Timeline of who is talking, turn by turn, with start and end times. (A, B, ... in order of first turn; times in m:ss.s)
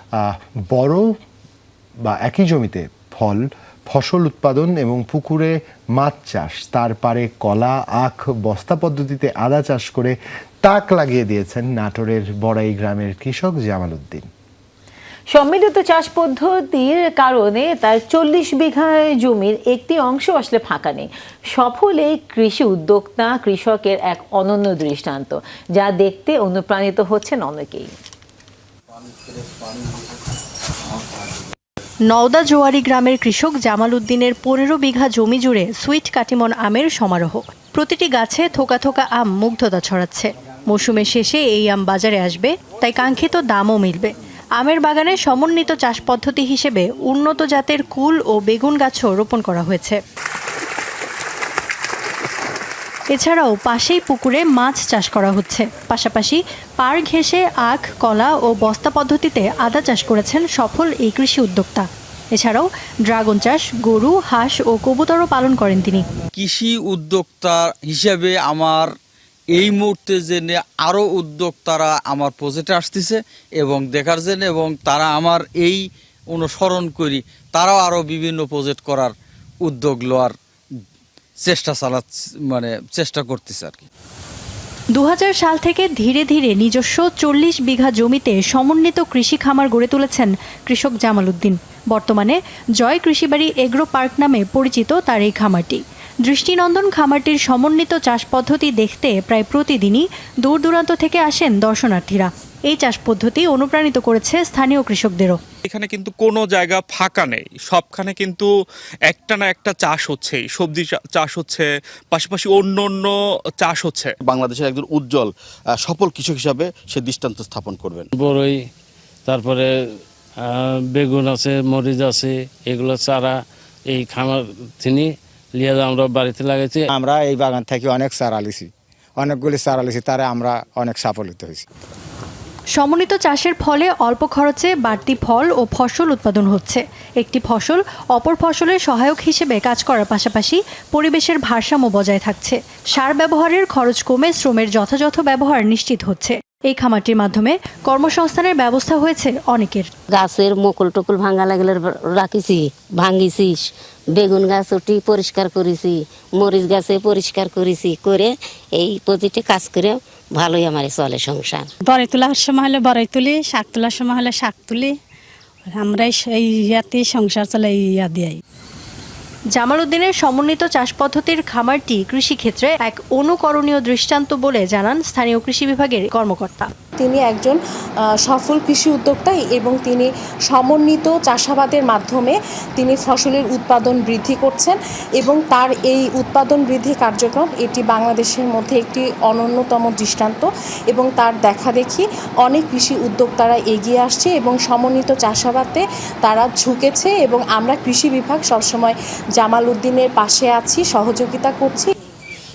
0:00.2-0:01.1 A
0:02.0-0:14.3 A
0:15.3-0:28.0 B
0:32.1-0:50.0 C
0:53.1-1:06.0 C
1:06.4-1:08.9 D
1:09.6-1:19.1 D
1:19.6-1:20.3 D
1:21.4-1:23.8 D
1:24.9-1:45.4 C
1:45.7-1:48.5 E
1:49.1-1:54.2 E
1:54.2-1:58.1 F
1:58.2-1:58.6 G
1:59.3-1:59.7 G
2:00.5-2:03.4 G
2:03.9-2:06.8 G
2:06.9-2:08.7 H
2:09.2-2:11.6 H
2:12.7-2:29.9 C
2:30.1-2:41.7 I
2:41.9-2:44.9 J
2:45.7-2:48.4 J
2:49.5-2:56.7 C
2:57.0-2:57.6 K
2:58.2-3:21.9 K